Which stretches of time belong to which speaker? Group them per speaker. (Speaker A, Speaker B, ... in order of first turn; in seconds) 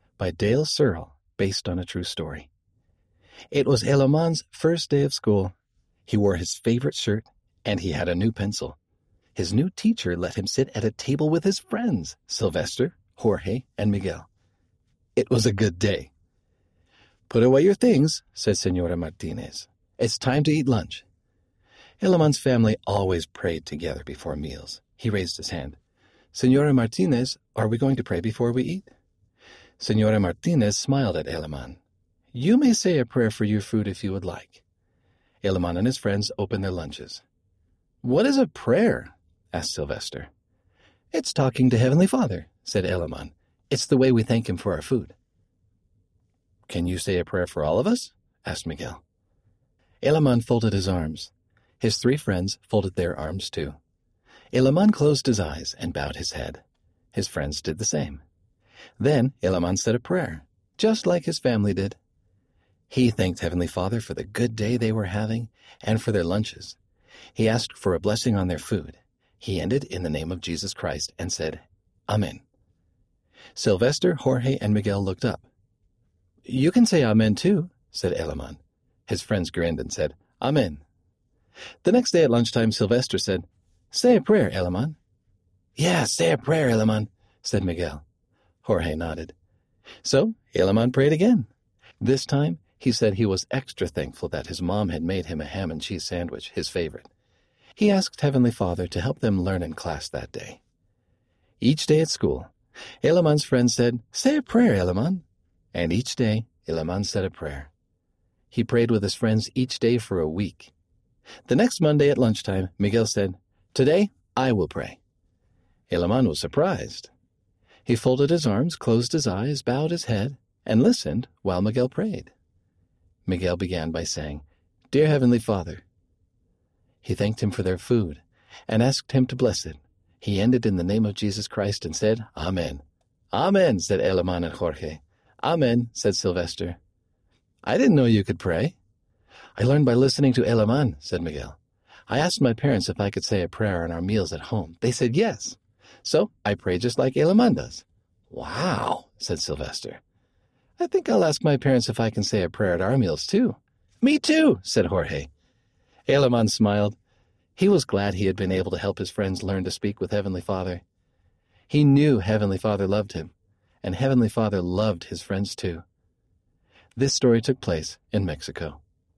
Speaker A: 0.2-2.5, 3.5-5.5, 6.1-8.8, 9.3-14.3, 15.2-16.1, 17.3-21.1, 22.0-25.8, 26.3-28.9, 29.8-31.8, 32.3-34.6, 35.4-37.2, 38.0-40.3, 41.1-45.1, 46.7-49.0, 50.0-53.8, 54.5-58.2, 59.0-62.0, 62.9-66.8, 67.3-72.4, 73.5-75.5, 76.5-80.8, 81.8-85.0, 85.8-88.0, 88.6-89.3, 90.0-91.5, 92.0-97.1, 97.8-100.6, 101.6-102.5, 103.0-107.7, 108.5-110.7, 111.5-115.0, 115.9-117.1, 117.9-122.3, 123.3-125.8, 127.0-136.8, 137.6-138.8, 139.6-150.0, 150.8-155.3, 156.1-157.0, 157.6-160.8, 161.7-165.8, 167.0-168.8